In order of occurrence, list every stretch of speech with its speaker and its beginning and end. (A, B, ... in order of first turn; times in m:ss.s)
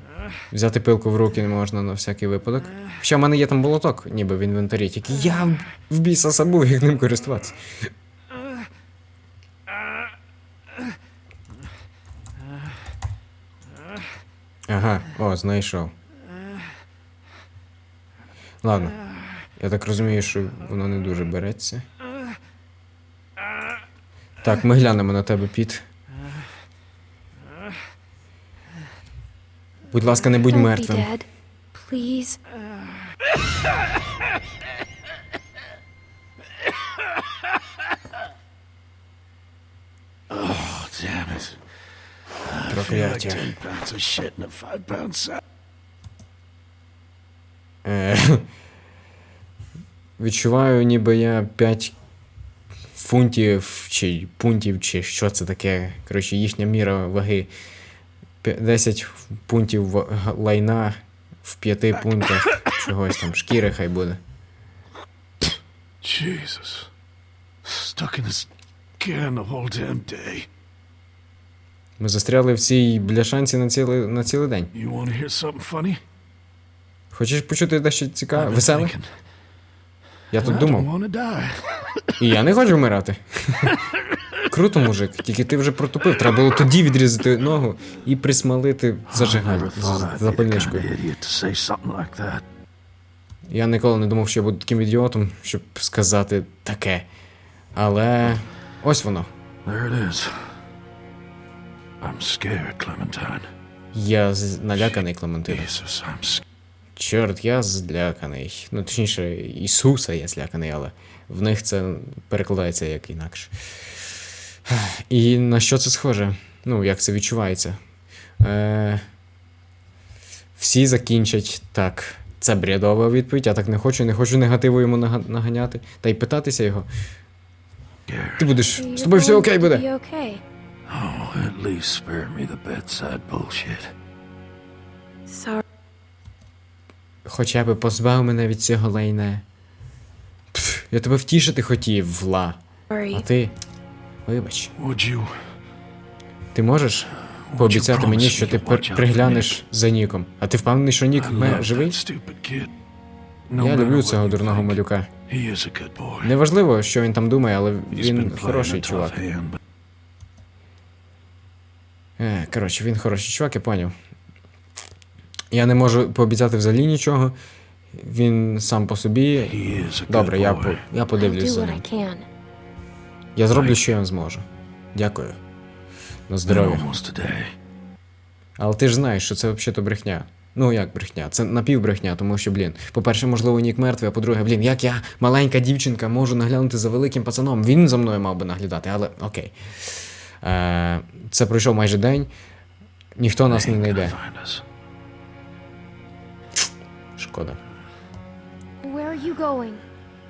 0:00.5-0:07.6 A
0:14.7-0:15.9 A
0:18.6-0:19.0 A
0:19.6-0:21.8 A
0:24.4-0:25.8 A
0:29.9-0:31.1 A
0:30.5-0:32.4 B
0:40.3-0:41.6 C
0:42.4-0:45.4 C
0:42.7-0:43.5 A
0:47.8-0:48.4 A
0:50.2-0:51.9 A
0:53.0-0:57.5 A
0:58.4-1:04.2 A
1:06.0-1:06.9 C
1:07.6-1:10.5 C
1:12.0-1:14.7 A
1:14.7-1:16.0 C
1:17.1-1:18.9 A
1:18.3-1:19.1 C
1:20.3-1:20.9 A
1:20.4-1:22.1 C
1:22.2-1:23.8 A
1:24.4-1:30.9 A
1:29.1-1:32.4 C
1:33.5-1:37.1 A
1:37.7-1:39.3 A
1:39.6-1:40.6 C
1:42.0-1:43.5 C
1:43.9-1:45.7 A
1:45.5-1:46.4 C
1:47.0-1:53.5 A
1:54.7-1:57.8 A
1:58.4-1:59.0 A
2:00.6-2:06.9 A
2:08.1-2:08.5 C
2:08.4-2:09.8 A
2:08.6-2:10.4 B
2:10.9-2:13.9 C
2:15.3-2:15.6 B
2:17.2-2:19.4 A
2:20.5-2:22.6 A
2:22.9-2:23.2 B
2:23.1-2:23.5 A
2:24.2-2:24.7 A
2:24.8-2:25.4 C
2:26.5-2:32.0 A
2:27.5-2:29.6 C
2:31.2-2:32.7 C
2:33.5-2:36.3 C
2:33.6-2:35.1 A
2:36.2-2:39.2 A
2:37.9-2:39.6 C
2:42.2-2:43.9 A
2:45.5-2:47.3 A
2:47.9-2:51.8 A
2:49.4-2:50.8 C
2:51.1-2:52.3 B
2:53.4-2:55.4 A
2:53.5-2:53.9 C
2:56.3-2:56.9 A
2:56.5-2:57.5 C
2:58.6-3:12.3 A
3:13.2-3:14.2 A
3:13.4-3:14.6 C
3:17.2-3:17.6 A
3:18.8-3:19.8 B